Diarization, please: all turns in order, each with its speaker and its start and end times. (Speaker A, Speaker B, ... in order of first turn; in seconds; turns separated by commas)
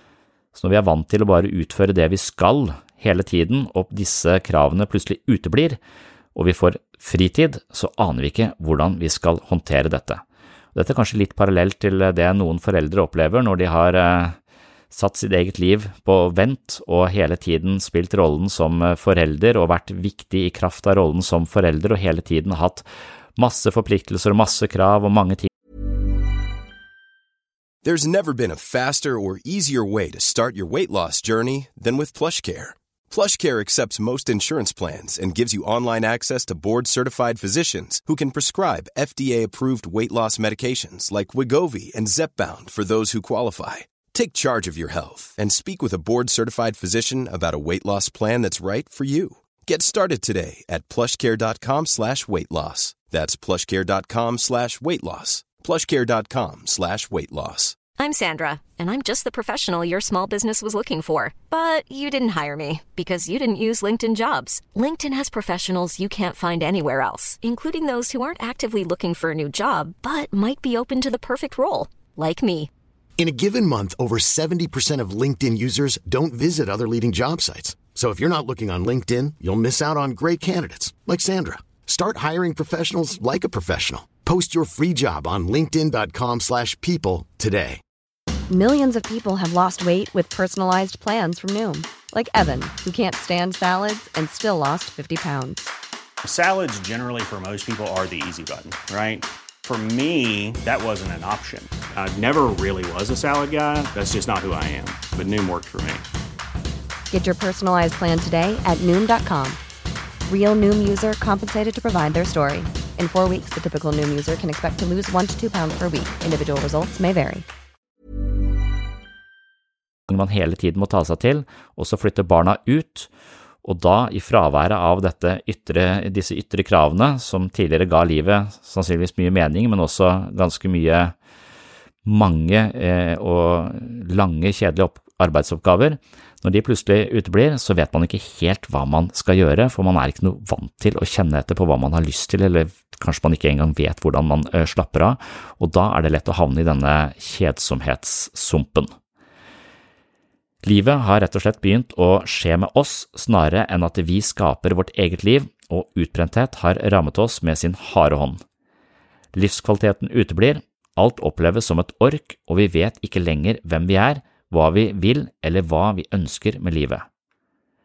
Speaker A: 0.5-5.8, Speaker A: 6.3-10.2, Speaker A: 10.7-14.4, Speaker A: 14.9-22.9, Speaker A: 23.4-25.5, Speaker B: 27.8-57.8, Speaker C: 58.0-72.7, Speaker D: 73.2-87.8, Speaker E: 88.5-95.7, Speaker F: 96.2-106.0, Speaker E: 107.1-109.6, Speaker E: 110.3-117.5, Speaker A: 120.1-123.1, Speaker A: 123.6-131.1, Speaker A: 132.1-148.9, Speaker A: 150.6-158.4, Speaker A: 159.3-167.1